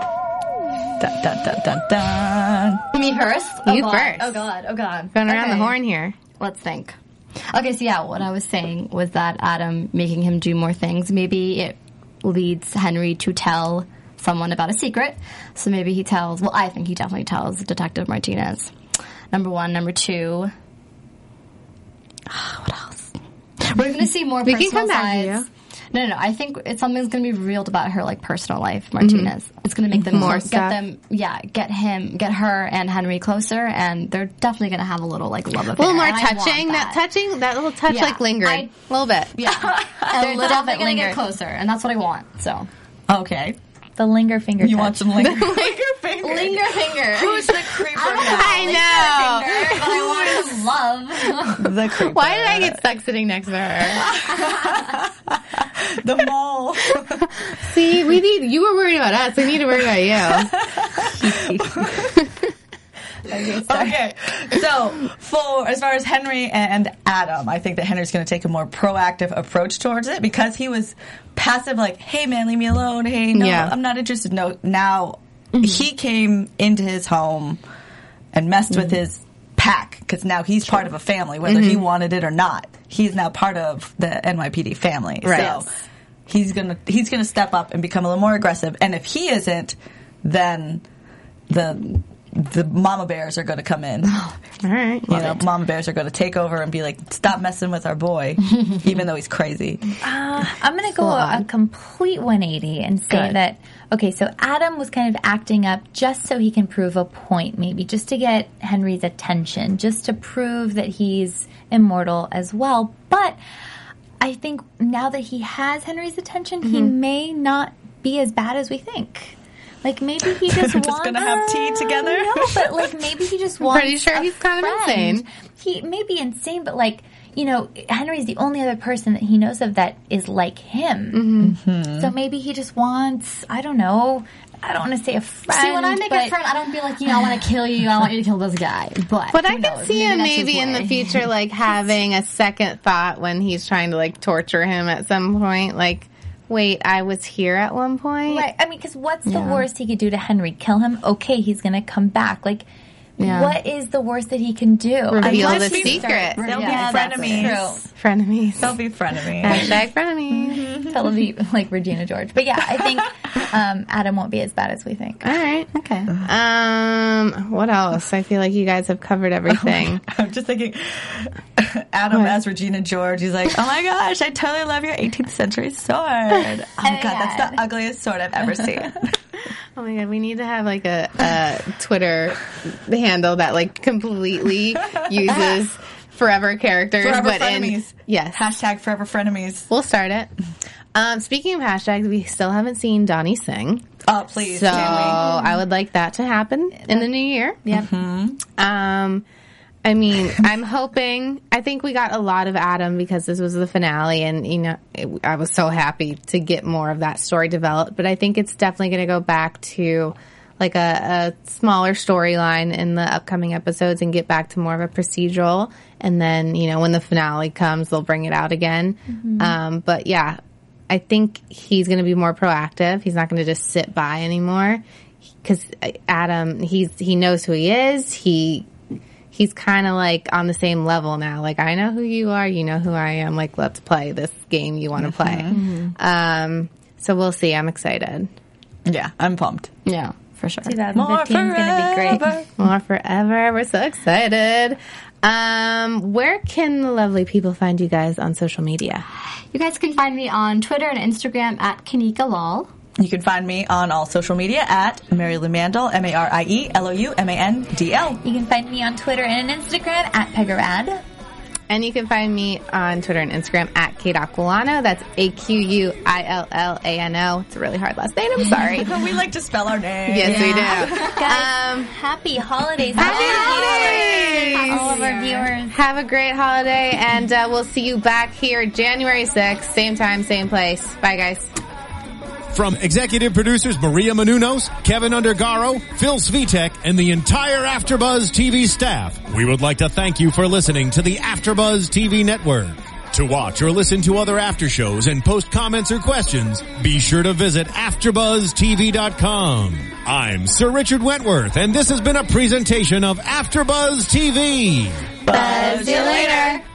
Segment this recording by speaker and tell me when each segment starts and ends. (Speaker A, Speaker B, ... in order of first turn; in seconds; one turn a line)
Speaker A: 1.0-2.8
Speaker B: 2.9-7.0
Speaker C: 3.6-4.4
Speaker C: 5.1-6.1
Speaker B: 7.5-18.7
Speaker B: 19.3-20.5
Speaker C: 22.3-23.1
Speaker B: 23.6-37.0
Speaker C: 24.4-25.4
Speaker C: 29.0-29.3
Speaker C: 30.0-30.8
Speaker C: 35.8-39.5
Speaker B: 37.9-38.7
Speaker B: 39.4-42.7
Speaker D: 40.0-41.2
Speaker A: 43.1-43.6
Speaker D: 44.0-45.3
Speaker A: 44.6-48.9
Speaker C: 45.2-45.5
Speaker B: 45.4-51.8
Speaker C: 48.1-49.9
Speaker A: 51.4-52.8
Speaker C: 52.0-54.1
Speaker A: 54.0-57.3
Speaker B: 54.1-54.5
Speaker C: 57.6-60.6
Speaker A: 60.4-62.1
Speaker D: 60.9-62.1
Speaker A: 63.4-77.6
Speaker C: 73.3-73.7
Speaker A: 78.3-85.7
Speaker C: 81.5-81.8
Speaker C: 85.2-85.6
Speaker A: 86.3-90.8
Speaker A: 91.5-94.2
Speaker C: 94.6-95.4
Speaker A: 95.1-99.9
Speaker D: 100.0-113.4
Speaker C: 100.9-101.5
Speaker D: 114.2-136.3
Speaker C: 116.7-116.9
Speaker A: 120.4-123.0
Speaker C: 123.6-125.2
Speaker C: 131.1-131.6
Speaker A: 131.4-132.1
Speaker B: 135.5-141.2
Speaker C: 139.3-148.5
Speaker D: 148.3-152.6
Speaker B: 149.2-149.7
Speaker B: 153.2-153.6
Speaker D: 153.2-157.9
Speaker C: 155.1-156.5
Speaker A: 155.2-157.8
Speaker B: 156.3-157.6
Speaker C: 157.1-158.8
Speaker A: 158.6-159.8
Speaker C: 159.4-160.7
Speaker A: 160.5-161.1
Speaker D: 160.8-165.4
Speaker C: 165.2-170.0
Speaker B: 165.7-166.1
Speaker A: 169.5-179.2
Speaker D: 176.8-177.6
Speaker C: 179.8-188.4
Speaker A: 185.2-185.6
Speaker A: 187.0-189.7
Speaker C: 189.7-190.3
Speaker C: 190.9-193.9
Speaker A: 194.0-195.2
Speaker C: 194.5-197.6
Speaker D: 194.8-195.6
Speaker A: 197.7-198.4
Speaker C: 198.6-199.2
Speaker C: 199.8-220.4
Speaker D: 219.1-219.6
Speaker C: 220.9-224.8
Speaker C: 225.4-228.7
Speaker C: 229.3-238.3
Speaker A: 235.0-235.6
Speaker B: 235.5-235.9
Speaker A: 238.8-239.7
Speaker B: 239.8-240.8
Speaker D: 240.6-242.4
Speaker A: 240.9-242.5
Speaker C: 242.6-249.1
Speaker B: 249.5-252.7
Speaker A: 253.0-258.2
Speaker D: 258.2-261.0
Speaker C: 261.7-268.9
Speaker A: 268.7-271.2
Speaker C: 270.1-271.9
Speaker B: 270.2-271.2
Speaker D: 270.7-275.7
Speaker C: 273.0-274.9
Speaker A: 273.0-274.7
Speaker B: 273.0-275.5
Speaker C: 275.7-281.5
Speaker E: 282.5-305.2
Speaker A: 305.2-306.6
Speaker B: 305.3-306.6
Speaker C: 305.3-306.5
Speaker D: 305.4-306.4